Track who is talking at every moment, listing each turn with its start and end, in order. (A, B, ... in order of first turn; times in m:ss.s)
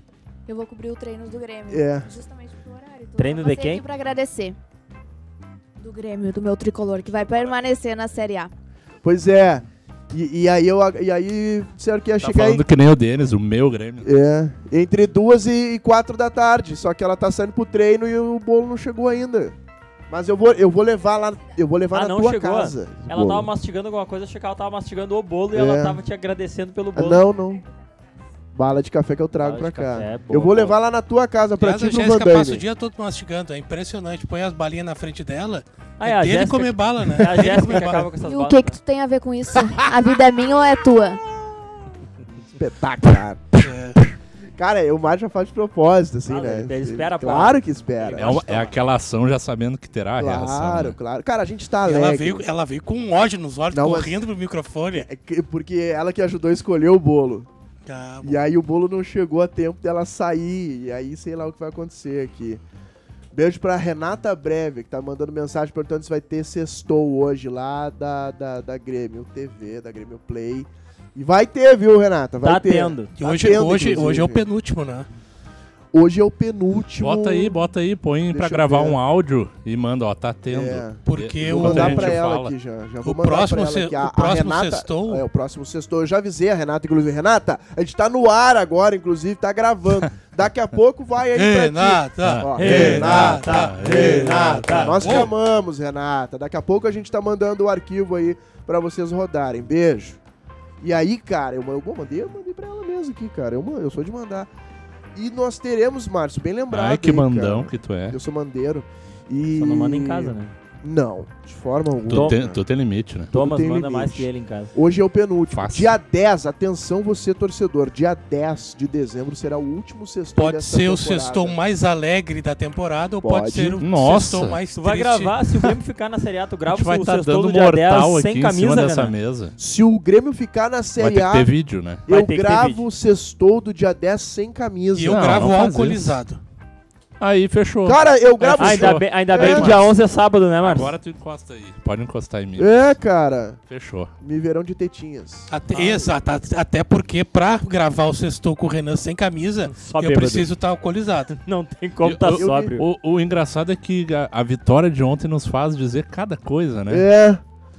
0:00.5-0:04.6 A
0:01.7-0:02.1 B
0:03.2-0:03.8 C
0:05.8-0:08.5 A
0:09.0-0:12.6 B
0:12.2-0:14.1 D
0:14.0-0:19.6 B
0:20.1-0:23.5 B
0:21.9-0:27.2 C
0:25.5-0:26.0 B
0:27.0-0:27.7 B
0:28.5-0:32.6 B
0:29.4-0:30.8 C
0:31.6-0:38.1 E
0:36.0-0:38.8 C
0:38.2-0:41.2 A
0:42.6-0:43.6 B
0:43.6-0:44.1 E
0:44.6-0:48.5 B
0:46.3-0:48.8 C
0:48.2-0:51.0 D
0:50.2-0:52.5 B
0:51.8-0:55.1 E
0:53.7-0:54.2 B
0:55.0-0:57.5 B
0:57.9-0:58.4 E
0:58.2-1:02.6 B
1:03.3-1:14.5 B
1:12.4-1:13.1 C
1:13.2-1:15.1 E
1:15.9-1:17.6 B
1:17.0-1:22.6 D
1:18.3-1:19.0 B
1:20.5-1:40.2 B
1:21.0-1:22.2 E
1:23.0-1:25.3 E
1:31.3-1:35.3 E
1:32.2-1:35.3 D
1:32.6-1:35.0 C
1:40.8-1:44.5 B
1:45.1-1:52.6 B
1:46.7-1:48.2 D
1:49.6-1:50.5 C
1:52.0-1:53.3 D
1:52.1-1:52.4 C
1:53.3-1:54.8 C
1:53.3-2:01.6 B
1:55.5-1:56.0 D
2:00.4-2:05.4 E
2:03.2-2:03.8 B
2:03.8-2:04.6 D
2:04.8-2:09.2 C
2:06.7-2:09.6 D
2:09.6-2:11.5 B
2:11.0-2:12.0 D
2:12.1-2:15.4 B
2:12.1-2:12.9 C
2:14.9-2:16.4 E
2:15.1-2:16.2 D
2:17.2-2:19.9 D
2:17.9-2:19.8 B
2:18.4-2:21.0 C
2:20.6-2:22.8 D
2:22.6-2:23.6 B
2:23.7-2:24.1 D
2:24.2-2:26.1 B
2:25.5-2:31.4 E
2:29.7-2:30.5 C
2:31.3-2:32.9 C
2:32.0-2:37.1 D
2:32.3-2:32.7 B
2:36.9-2:37.4 B